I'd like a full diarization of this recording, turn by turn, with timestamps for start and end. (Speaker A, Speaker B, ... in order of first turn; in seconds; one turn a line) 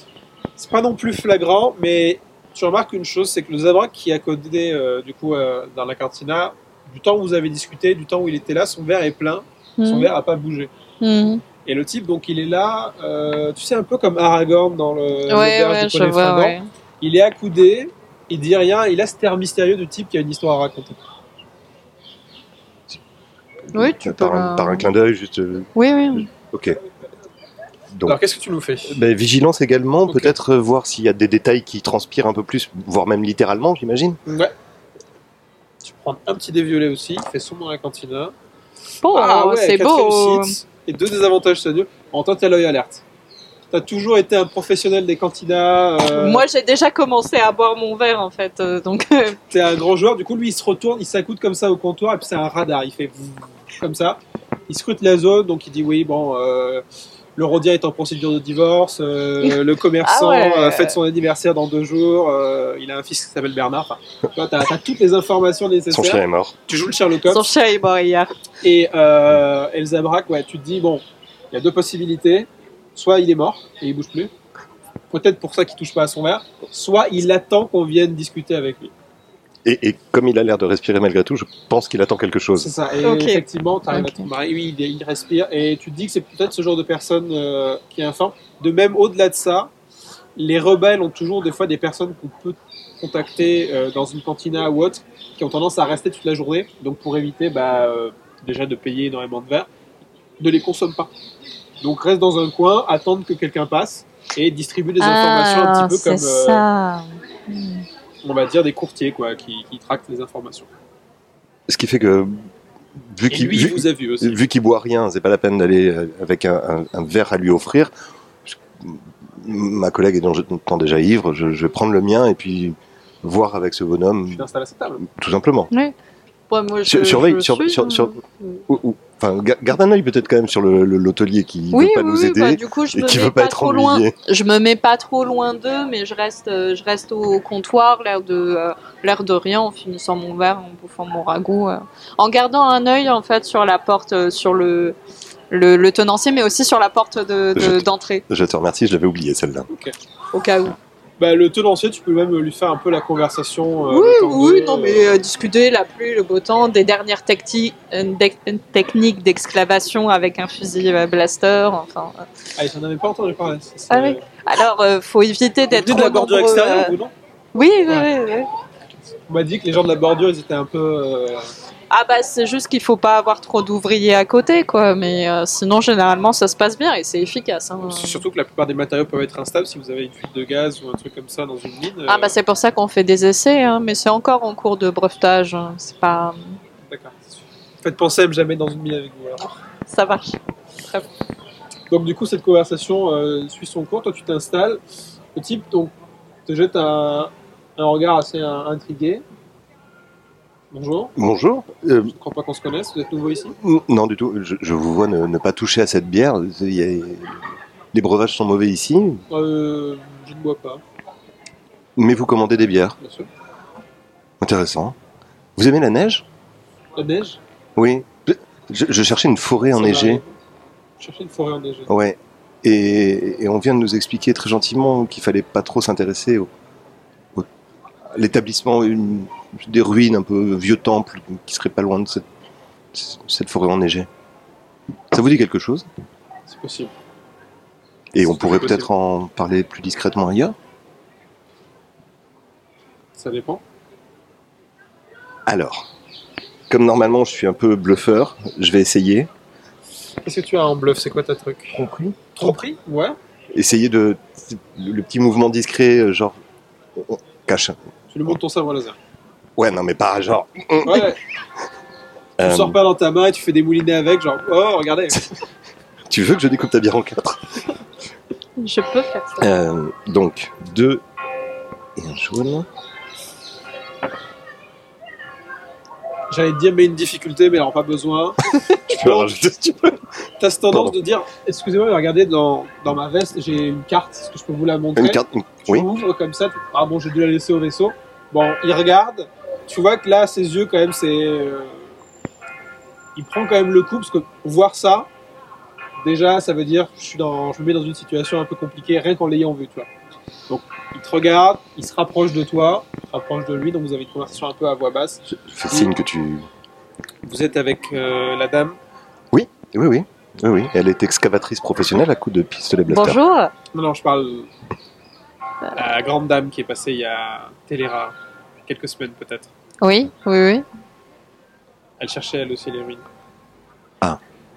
Speaker A: 0.6-10.7
Speaker B: 9.8-10.1
Speaker B: 11.0-11.4
Speaker A: 11.7-21.0
Speaker B: 15.3-16.7
Speaker B: 23.7-24.9
Speaker C: 23.7-26.8
Speaker B: 25.8-26.3
Speaker C: 27.9-28.2
Speaker A: 28.1-29.0
Speaker C: 28.9-34.2
Speaker A: 30.1-30.4
Speaker A: 34.3-34.5
Speaker A: 35.8-38.4
Speaker B: 39.0-40.5
Speaker A: 39.1-43.0
Speaker A: 43.7-46.4
Speaker B: 46.0-49.4
Speaker A: 49.5-56.8
Speaker A: 57.4-67.5
Speaker B: 59.4-61.0
Speaker C: 65.9-66.5
Speaker B: 67.3-68.3
Speaker A: 68.6-74.3
Speaker A: 75.1-78.9
Speaker C: 79.7-82.7
Speaker A: 82.6-89.7
Speaker B: 83.0-84.3
Speaker A: 90.4-99.7
Speaker A: 100.4-101.1
Speaker A: 101.8-106.6
Speaker B: 105.0-107.9
Speaker A: 108.2-110.7
Speaker C: 111.7-112.4
Speaker C: 113.1-117.9
Speaker A: 113.3-114.4
Speaker C: 118.5-124.4
Speaker A: 124.3-125.0
Speaker C: 125.1-125.7
Speaker B: 126.5-128.7
Speaker C: 126.8-128.2
Speaker C: 128.7-134.1
Speaker B: 131.7-145.0
Speaker B: 145.5-148.2
Speaker C: 147.6-149.7
Speaker A: 149.7-149.9
Speaker B: 150.3-150.8
Speaker A: 151.2-155.2
Speaker B: 153.9-162.2
Speaker A: 162.6-164.2
Speaker B: 163.9-167.0
Speaker A: 165.7-167.1
Speaker B: 167.5-168.5
Speaker A: 169.3-171.5
Speaker B: 171.9-178.2
Speaker A: 177.8-182.4
Speaker B: 182.1-186.6
Speaker A: 186.9-187.3
Speaker A: 187.8-189.6
Speaker B: 189.9-191.1
Speaker A: 191.9-194.8
Speaker A: 195.3-195.9
Speaker A: 196.5-199.2
Speaker A: 200.7-201.1
Speaker C: 201.2-202.1
Speaker A: 202.1-203.6
Speaker C: 203.6-209.2
Speaker A: 209.3-210.8
Speaker C: 212.0-213.0
Speaker A: 213.0-213.3
Speaker C: 214.4-214.9
Speaker C: 215.6-216.3
Speaker A: 217.0-217.4
Speaker C: 217.8-220.2
Speaker A: 219.7-220.3
Speaker A: 221.0-221.9
Speaker C: 221.9-226.5
Speaker C: 228.1-232.3
Speaker C: 232.9-234.1
Speaker C: 235.1-235.9
Speaker A: 236.5-236.9
Speaker C: 238.1-240.6
Speaker A: 238.2-238.9
Speaker A: 243.2-243.6
Speaker C: 245.5-245.9
Speaker C: 246.7-249.3
Speaker A: 250.2-251.8
Speaker C: 251.7-252.6
Speaker A: 252.3-253.2
Speaker C: 253.5-256.4
Speaker C: 257.0-257.8
Speaker A: 258.1-259.0
Speaker C: 259.6-261.1
Speaker A: 260.9-261.2
Speaker C: 262.4-262.8
Speaker A: 262.4-265.3
Speaker C: 266.1-267.6
Speaker B: 268.6-269.6
Speaker C: 269.4-271.0
Speaker C: 272.0-272.7
Speaker A: 276.3-279.5
Speaker C: 278.9-280.1
Speaker A: 280.4-291.9
Speaker C: 280.7-281.0
Speaker C: 285.0-285.9
Speaker A: 293.2-295.1
Speaker A: 296.0-299.9
Speaker A: 300.5-305.9
Speaker C: 305.3-306.5
Speaker A: 307.2-308.8
Speaker C: 309.3-313.2
Speaker B: 312.9-313.5
Speaker A: 313.7-314.5
Speaker A: 315.7-319.5
Speaker B: 319.8-320.6
Speaker A: 322.0-323.1